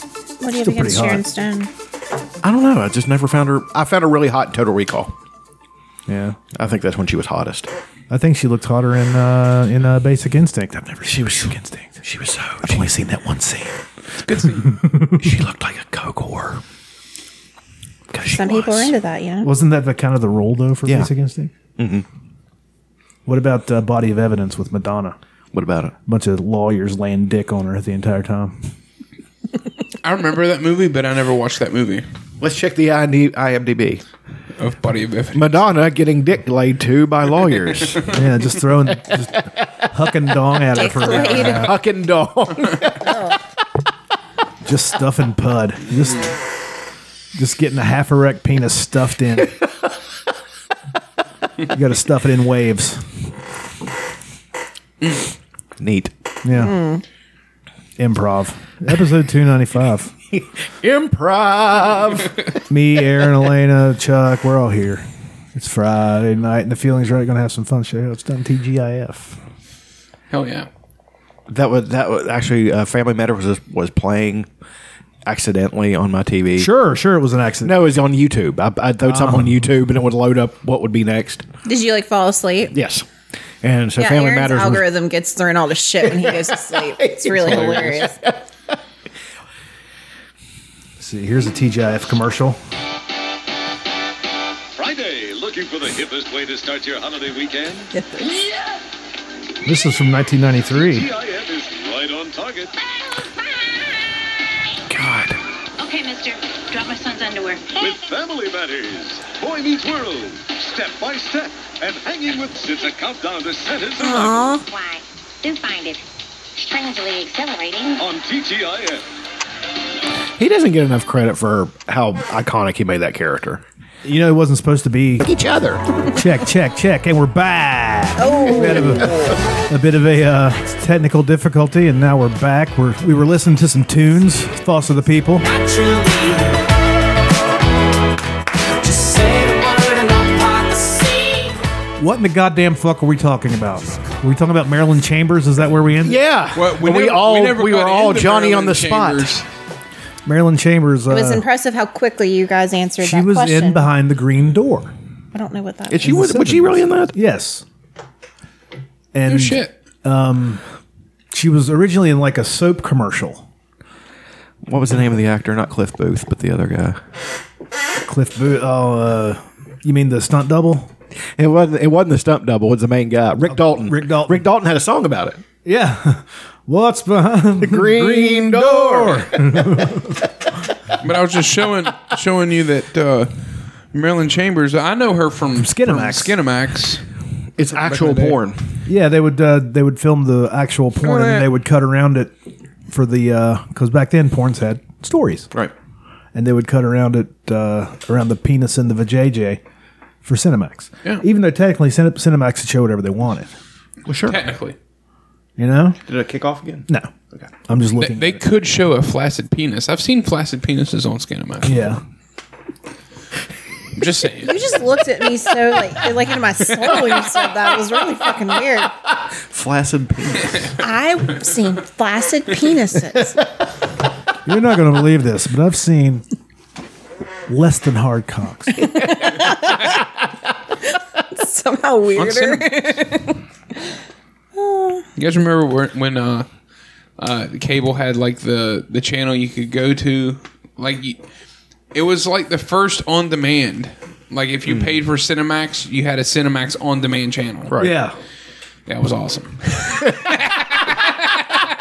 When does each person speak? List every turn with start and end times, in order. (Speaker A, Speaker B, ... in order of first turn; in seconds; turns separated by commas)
Speaker A: 0.4-1.7, Speaker B: 0.6-1.2, Speaker C: 2.4-5.1, Speaker B: 6.1-6.4, Speaker C: 6.5-7.7, Speaker B: 8.1-12.0, Speaker C: 11.1-12.9, Speaker B: 12.6-13.8, Speaker D: 14.2-14.7, Speaker B: 14.4-15.4, Speaker C: 15.2-16.6, Speaker C: 18.1-18.9, Speaker A: 18.2-19.5, Speaker B: 19.4-21.5, Speaker C: 21.8-22.1, Speaker B: 23.2-25.1, Speaker C: 25.5-25.9, Speaker B: 26.1-28.6, Speaker D: 30.0-32.0, Speaker C: 32.4-34.0, Speaker D: 34.6-35.5, Speaker C: 35.3-38.1, Speaker B: 38.1-41.8, Speaker A: 40.7-41.6, Speaker C: 41.5-43.1, Speaker A: 43.0-43.4, Speaker B: 44.6-46.3, Speaker B: 47.4-49.5, Speaker B: 51.7-53.0, Speaker C: 55.8-56.1, Speaker B: 56.4-56.8, Speaker A: 56.6-57.0, Speaker B: 58.0-60.1, Speaker C: 60.3-62.5, Speaker B: 62.7-69.4, Speaker D: 70.3-70.7, Speaker C: 71.5-74.5, Speaker C: 75.2-76.7, Speaker B: 76.6-77.8, Speaker C: 77.6-81.4, Speaker B: 79.0-79.7, Speaker A: 81.6-82.7, Speaker C: 82.7-83.0, Speaker C: 83.6-84.8, Speaker A: 84.0-88.1, Speaker C: 86.0-88.4, Speaker B: 91.0-92.6, Speaker E: 94.8-97.9, Speaker A: 97.9-98.3, Speaker B: 99.6-101.1, Speaker E: 100.7-102.7, Speaker C: 104.9-105.4, Speaker F: 105.8-108.0, Speaker E: 107.7-114.5, Speaker A: 114.0-114.6, Speaker F: 114.6-116.0, Speaker F: 116.5-118.0, Speaker E: 118.0-119.0, Speaker C: 120.4-123.6, Speaker B: 124.0-125.3, Speaker C: 125.2-125.8, Speaker B: 126.1-129.1, Speaker A: 128.2-129.4, Speaker B: 129.7-135.4, Speaker B: 142.0-146.2, Speaker C: 146.0-149.3, Speaker D: 146.5-149.4, Speaker B: 150.2-151.4, Speaker A: 151.1-153.9, Speaker B: 153.0-154.9, Speaker A: 155.3-156.3, Speaker C: 155.9-157.2, Speaker B: 156.0-157.6, Speaker B: 159.1-160.6, Speaker D: 159.2-159.7, Speaker B: 161.3-163.4, Speaker C: 164.7-167.0, Speaker B: 168.1-170.9, Speaker C: 171.4-175.4, Speaker B: 173.5-174.4, Speaker B: 175.6-180.2, Speaker C: 177.6-179.9, Speaker D: 181.0-183.3, Speaker D: 183.9-187.0, Speaker B: 185.5-186.3, Speaker C: 187.6-188.6, Speaker D: 187.9-188.2, Speaker B: 187.9-192.3, Speaker D: 191.0-191.5, Speaker B: 192.9-195.5, Speaker B: 196.3-199.6, Speaker B: 200.2-203.5, Speaker C: 204.1-204.4, Speaker D: 204.2-204.8, Speaker B: 205.6-206.0, Speaker C: 206.1-207.5, Speaker B: 207.7-208.4, Speaker D: 208.0-211.8, Speaker B: 211.6-212.0, Speaker D: 214.0-214.5, Speaker A: 214.4-218.9, Speaker C: 216.8-217.2, Speaker C: 219.3-220.7, Speaker A: 220.8-223.4, Speaker B: 224.4-226.2, Speaker B: 227.5-228.8, Speaker A: 228.8-230.0, Speaker A: 231.3-233.4, Speaker D: 232.1-233.1, Speaker A: 234.6-235.1, Speaker D: 235.2-236.5, Speaker D: 237.2-241.2, Speaker D: 241.9-247.7, Speaker C: 244.7-245.0, Speaker C: 247.7-248.0, Speaker B: 247.8-248.1, Speaker D: 248.9-250.9